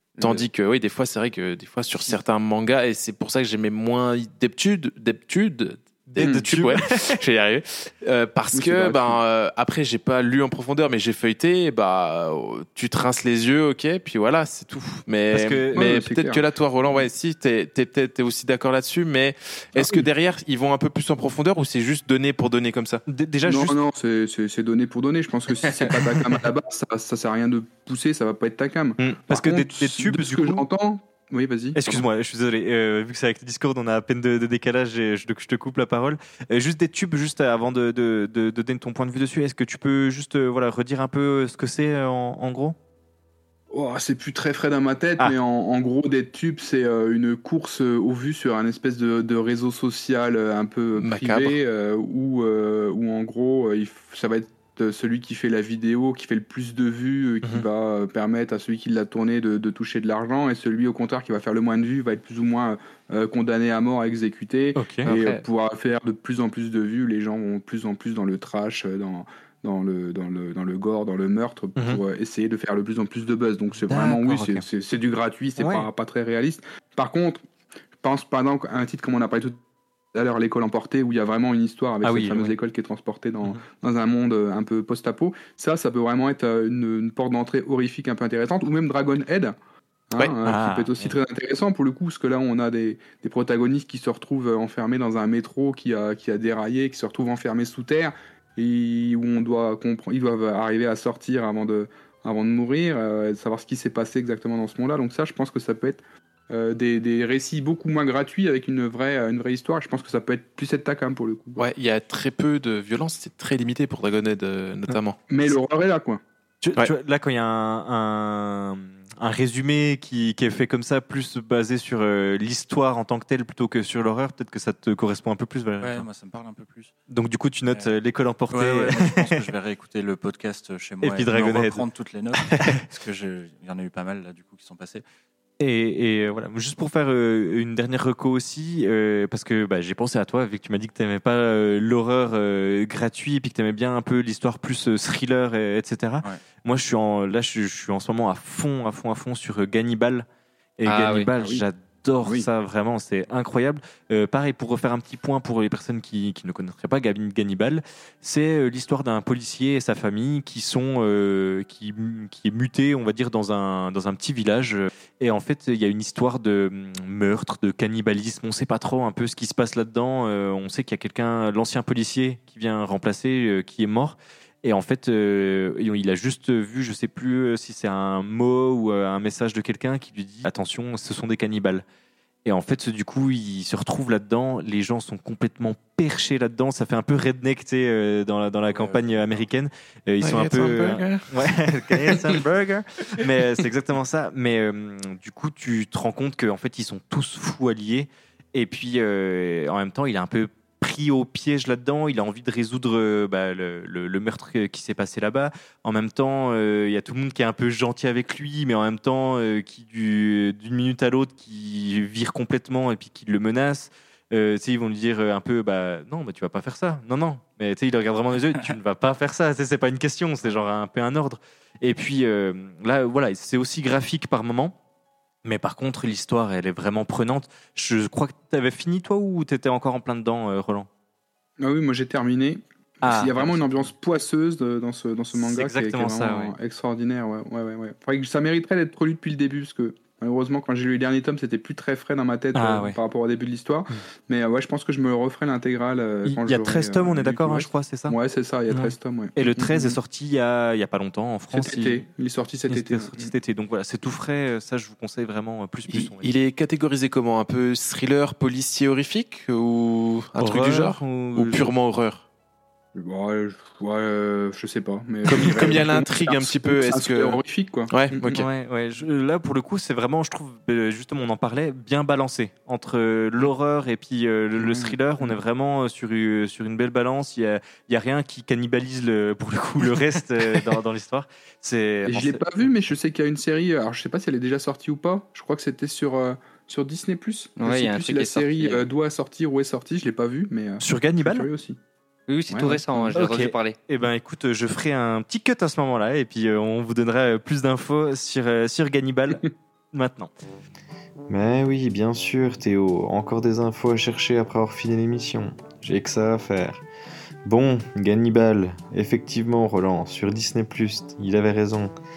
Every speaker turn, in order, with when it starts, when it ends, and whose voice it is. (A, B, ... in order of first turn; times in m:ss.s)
0:00.2-0:00.4 A
0:00.2-0:23.0 B
0:06.2-0:06.5 C
0:06.2-0:07.2 D
0:08.5-0:09.2 C
0:15.3-0:15.9 D
0:15.7-0:16.4 C
0:19.8-0:20.1 D
0:23.1-0:23.8 D
0:23.4-0:32.0 C
0:29.3-0:30.7 D
0:31.8-0:42.8 D
0:43.7-1:17.4 C
0:51.0-0:51.6 B
1:04.8-1:05.1 D
1:05.0-1:05.4 E
1:11.8-1:12.0 D
1:13.9-1:14.6 D
1:15.6-1:15.9 D
1:18.0-1:19.6 C
1:20.1-1:29.6 C
1:22.0-1:22.6 D
1:30.1-1:51.6 C
1:30.4-1:31.1 D
1:51.6-1:55.2 B
1:55.3-1:56.2 C
1:56.6-2:06.1 D
2:05.8-2:06.9 A
2:07.1-2:09.4 D
2:07.7-2:07.9 A
2:08.5-2:15.0 A
2:11.0-2:11.8 D
2:12.5-2:12.8 D
2:15.6-2:30.3 D
2:30.8-3:01.8 D
2:30.8-2:31.3 E
3:02.4-3:44.8 D
3:08.7-3:09.5 A
3:10.2-3:11.3 B
3:45.4-3:50.9 D
3:51.6-4:10.0 C
3:53.0-3:53.9 D
3:55.4-3:56.5 D
4:02.5-4:03.0 D
4:06.2-4:08.2 D
4:08.7-4:12.0 D
4:11.5-4:13.3 C
4:12.7-4:16.4 D
4:15.9-4:22.2 B
4:20.4-4:21.7 D
4:23.0-4:28.4 C
4:25.3-4:27.4 B
4:27.9-4:28.4 B
4:28.3-4:42.7 D
4:34.6-4:35.4 C
4:42.1-4:51.8 C
4:47.6-4:48.8 E
4:50.8-4:51.5 D
4:52.3-4:53.8 E
4:52.5-4:53.2 C
4:53.2-5:00.3 D
5:01.3-5:06.8 F
5:07.4-5:12.0 F